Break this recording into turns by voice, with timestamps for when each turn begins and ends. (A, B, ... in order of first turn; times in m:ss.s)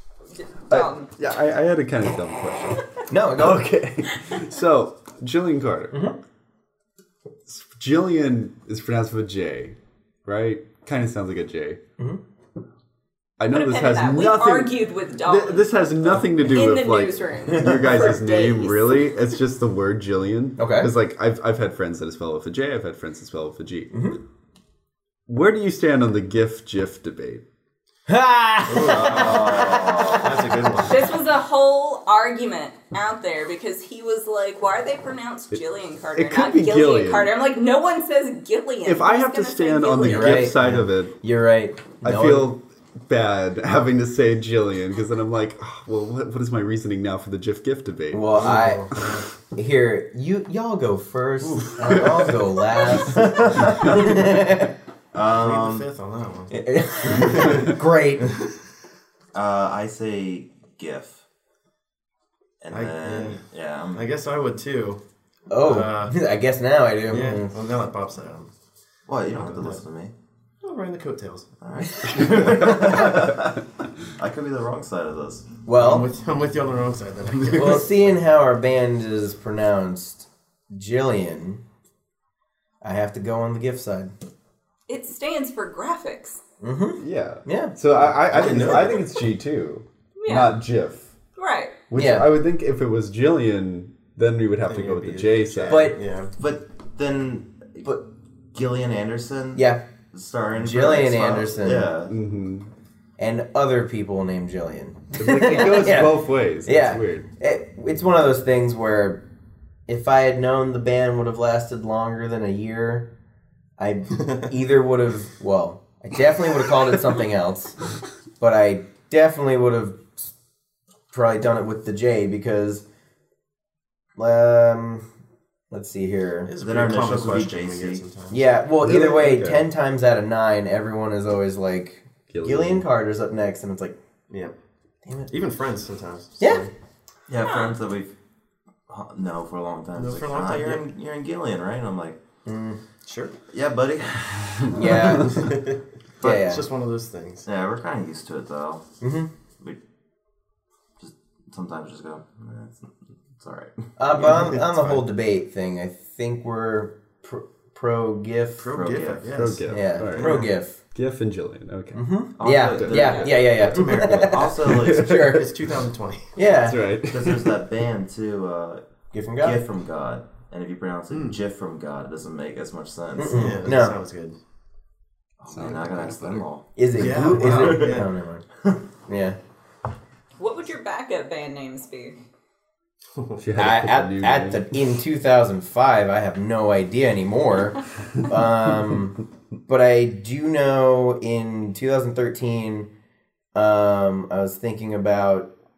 0:00.3-0:01.1 A
0:00.7-0:02.8 B
0:03.1-0:03.8 C
0:03.4-0:06.0 B
0:05.9-0:06.2 C
0:07.5-0:11.8 B
0:13.4-0:24.0 B
0:13.5-0:19.1 A
0:20.6-0:20.9 C
0:23.9-0:24.2 C
0:25.3-0:27.4 B
0:28.1-0:30.1 C
0:28.7-0:31.1 D
0:28.9-0:30.5 E
0:30.8-0:40.5 A
0:36.2-0:37.3 B
0:38.8-0:41.1 B
0:40.1-0:42.5 C
0:42.0-0:48.6 B
0:48.1-0:48.9 C
0:48.4-0:49.3 D
0:49.5-0:54.7 C
0:51.4-0:52.0 D
0:55.1-0:55.9 E
0:55.3-0:57.8 D
0:56.5-0:58.3 C
0:59.3-1:01.2 E
1:02.6-1:04.1 E
1:02.7-1:05.0 D
1:05.5-1:07.6 C
1:05.6-1:06.2 D
1:07.1-1:08.5 D
1:09.1-1:10.1 E
1:09.3-1:09.8 D
1:10.6-1:11.5 D
1:11.6-1:15.5 E
1:12.0-1:12.9 C
1:15.6-1:16.1 C
1:15.8-1:17.9 D
1:17.5-1:21.6 C
1:22.8-1:24.1 C
1:24.9-1:26.4 A
1:26.6-1:27.7 C
1:27.0-1:31.1 B
1:28.0-1:29.1 D
1:30.2-1:30.6 A
1:31.4-1:31.8 A
1:31.9-1:35.9 B
1:31.9-1:32.3 C
1:34.6-1:36.3 D
1:35.7-1:36.0 C
1:36.4-1:37.9 E
1:38.5-1:42.2 E
1:39.6-1:39.8 C
1:40.6-1:41.9 C
1:42.1-1:42.7 B
1:43.2-1:49.2 C
1:45.2-1:47.3 B
1:49.9-1:53.1 C
1:53.8-1:57.8 C
1:58.4-2:00.3 C
2:01.1-2:02.8 C
2:04.2-2:05.0 C
2:05.7-2:06.5 C
2:06.4-2:08.4 D
2:06.6-2:08.0 E
2:08.3-2:14.0 C
2:08.8-2:09.7 B
2:12.3-2:12.9 B
2:15.0-2:15.3 C
2:15.3-2:16.7 D
2:16.4-2:16.6 C
2:17.3-2:18.1 E
2:18.9-2:22.2 E
2:20.0-2:20.9 D
2:22.4-2:22.8 C
2:23.0-2:23.4 D
2:23.5-2:25.0 E
2:24.7-2:25.6 C
2:25.1-2:27.5 D
2:26.2-2:26.7 C
2:27.4-2:28.8 E
2:29.0-2:29.3 C
2:31.0-2:33.9 E
2:34.0-2:38.8 C
2:34.1-2:35.0 D
2:38.6-2:40.5 D
2:38.7-2:39.3 E
2:39.3-2:42.0 B
2:39.7-2:40.8 C
2:41.9-2:45.5 C
2:42.4-2:45.4 E
2:42.6-2:43.3 B
2:43.6-2:44.6 D
2:44.8-2:45.4 B
2:45.2-2:46.4 D
2:46.4-2:47.0 C
2:46.6-2:47.6 B
2:47.1-2:48.8 E
2:49.1-2:49.6 C
2:49.4-2:53.5 E
2:51.1-2:51.4 D
2:53.2-2:54.0 C
2:53.3-2:54.4 D
2:55.4-2:58.0 E
2:55.5-2:56.4 B
2:56.8-2:58.4 C
2:57.0-2:58.1 D
2:59.1-2:59.4 C
3:00.4-3:02.2 A
3:03.2-3:03.4 D
3:03.4-3:04.7 B
3:03.6-3:12.9 C
3:13.6-3:15.5 C